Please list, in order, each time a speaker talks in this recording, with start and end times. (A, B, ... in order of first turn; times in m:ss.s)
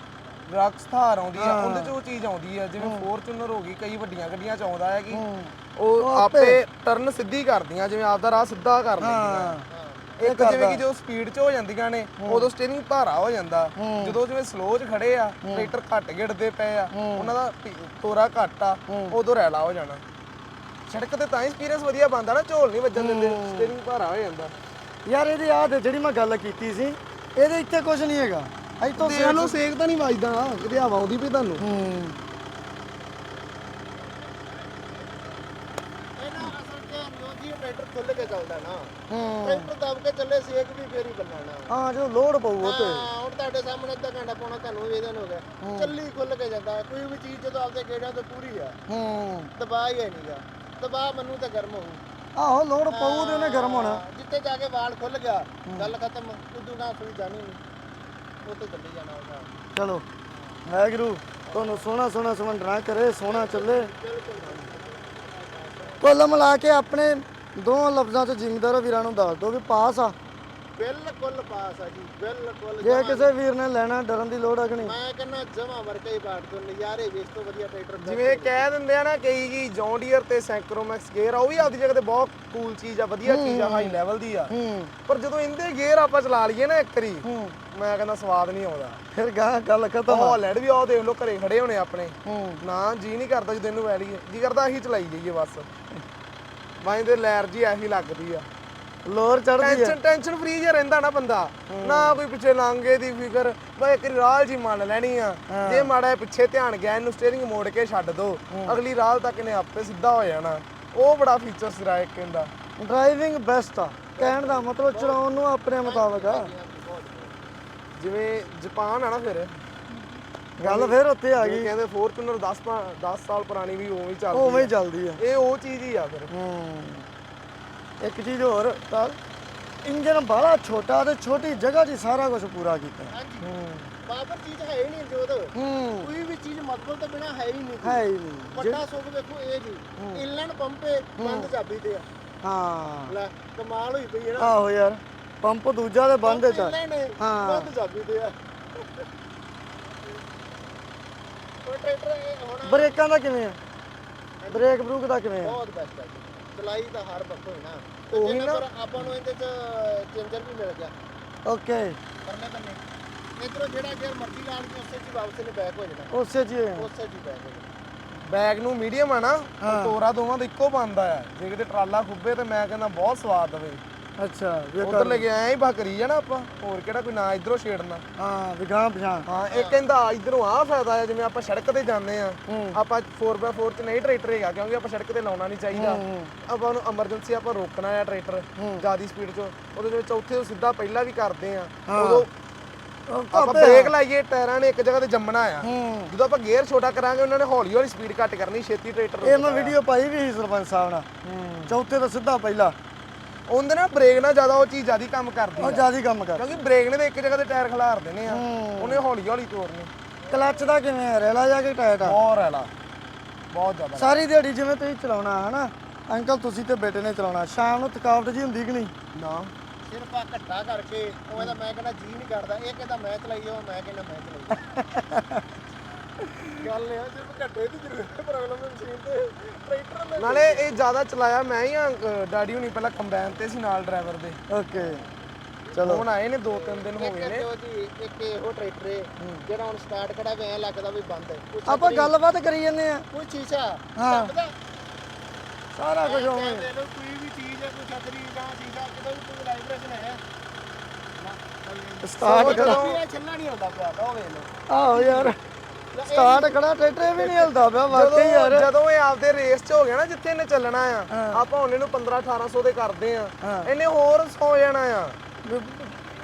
0:00.4-0:05.2 A
0:01.4-0:01.9 B
0:02.8-0:03.1 B
0:05.1-0:06.6 B
0:05.8-0:09.6 A
0:09.0-0:09.7 B
0:09.7-0:10.1 C
0:10.2-0:20.0 A
0:10.2-0:10.8 B
0:12.2-0:12.5 B
0:13.8-0:14.2 B
0:15.4-0:15.7 B
0:16.9-0:17.3 B
0:18.9-0:19.2 B
0:20.9-0:24.5 A
0:23.0-0:23.7 B
0:25.0-0:29.6 B
0:29.0-0:31.6 A
0:31.6-0:32.2 B
0:36.2-0:41.7 C
0:39.1-0:39.7 B
0:41.7-0:43.0 B
0:42.6-0:48.8 C
0:45.6-0:45.9 B
0:48.9-0:49.5 B
0:49.6-0:52.0 C
0:52.4-0:54.0 B
0:52.9-0:57.6 C
0:55.7-0:55.9 B
0:58.4-0:59.5 C
0:59.7-1:00.0 B
1:00.6-1:03.9 B
1:01.4-1:01.8 C
1:03.2-1:06.0 C
1:06.0-1:10.2 B
1:10.8-1:13.3 C
1:12.8-1:14.9 B
1:14.7-1:18.6 C
1:18.0-1:24.5 A
1:23.2-1:24.0 B
1:24.5-1:24.9 B
1:25.1-1:29.0 A
1:27.2-1:27.6 B
1:29.1-1:30.4 B
1:30.1-1:35.7 A
1:32.2-1:32.6 B
1:36.8-1:38.5 A
1:39.0-1:39.9 B
1:39.6-1:52.5 A
1:41.7-1:42.2 B
1:45.5-1:45.9 B
1:48.5-1:48.8 B
1:52.8-1:56.5 B
1:54.2-1:55.2 C
1:55.8-1:57.4 C
1:58.0-1:59.6 A
2:00.6-2:01.7 B
2:00.6-2:06.3 A
2:04.3-2:05.2 B
2:06.3-2:07.1 B
2:08.0-2:09.2 B
2:09.8-2:13.8 B
2:13.1-2:13.5 C
2:14.0-2:18.0 C
2:15.5-2:16.1 B
2:17.8-2:18.8 B
2:18.6-2:22.1 C
2:20.0-2:20.2 B
2:21.2-2:21.5 B
2:22.4-2:23.2 B
2:23.1-2:24.6 C
2:24.4-2:27.7 B
2:26.2-2:29.0 C
2:31.6-2:33.0 C
2:32.6-2:33.6 B
2:34.4-2:34.7 C
2:34.5-2:35.6 B
2:35.4-2:40.9 C
2:38.1-2:38.6 A
2:41.4-2:42.0 B
2:42.2-2:42.8 C
2:43.4-2:46.1 C
2:46.1-2:46.9 B
2:46.8-2:47.7 C
2:48.2-2:53.8 A
2:49.6-2:50.0 B
2:54.2-2:55.2 B
2:54.8-2:58.0 A
2:58.2-2:59.3 B
2:59.2-3:12.3 A
2:59.5-2:59.8 C
3:02.5-3:02.8 B
3:05.7-3:06.3 B
3:08.6-3:08.8 B
3:11.9-3:12.2 B
3:13.1-3:13.9 B
3:13.3-3:19.8 A
3:15.6-3:16.1 B
3:19.2-3:22.8 B
3:21.3-3:21.6 A
3:23.5-3:29.9 A
3:25.6-3:26.6 B
3:28.3-3:29.0 B
3:30.3-3:32.2 B
3:32.0-3:32.7 A
3:33.5-3:34.2 A
3:34.0-3:38.9 B
3:39.1-3:39.5 A
3:39.9-3:44.6 C
3:44.5-3:45.4 B
3:46.2-3:46.6 B
3:46.5-3:50.8 C
3:50.2-3:54.4 A
3:54.5-3:55.0 B
3:55.7-3:56.0 B
3:55.8-3:57.4 A
3:56.4-4:02.1 C
4:01.6-4:03.0 B
4:03.1-4:04.5 C
4:04.0-4:04.3 B
4:05.7-4:06.7 B
4:06.0-4:10.2 C
4:11.2-4:15.3 C
4:12.0-4:12.8 B
4:12.2-4:13.0 A
4:14.7-4:15.4 B
4:15.9-4:17.7 C
4:16.0-4:18.7 B
4:17.9-4:25.2 A
4:21.1-4:21.4 B
4:23.4-4:23.7 B
4:25.4-4:25.9 B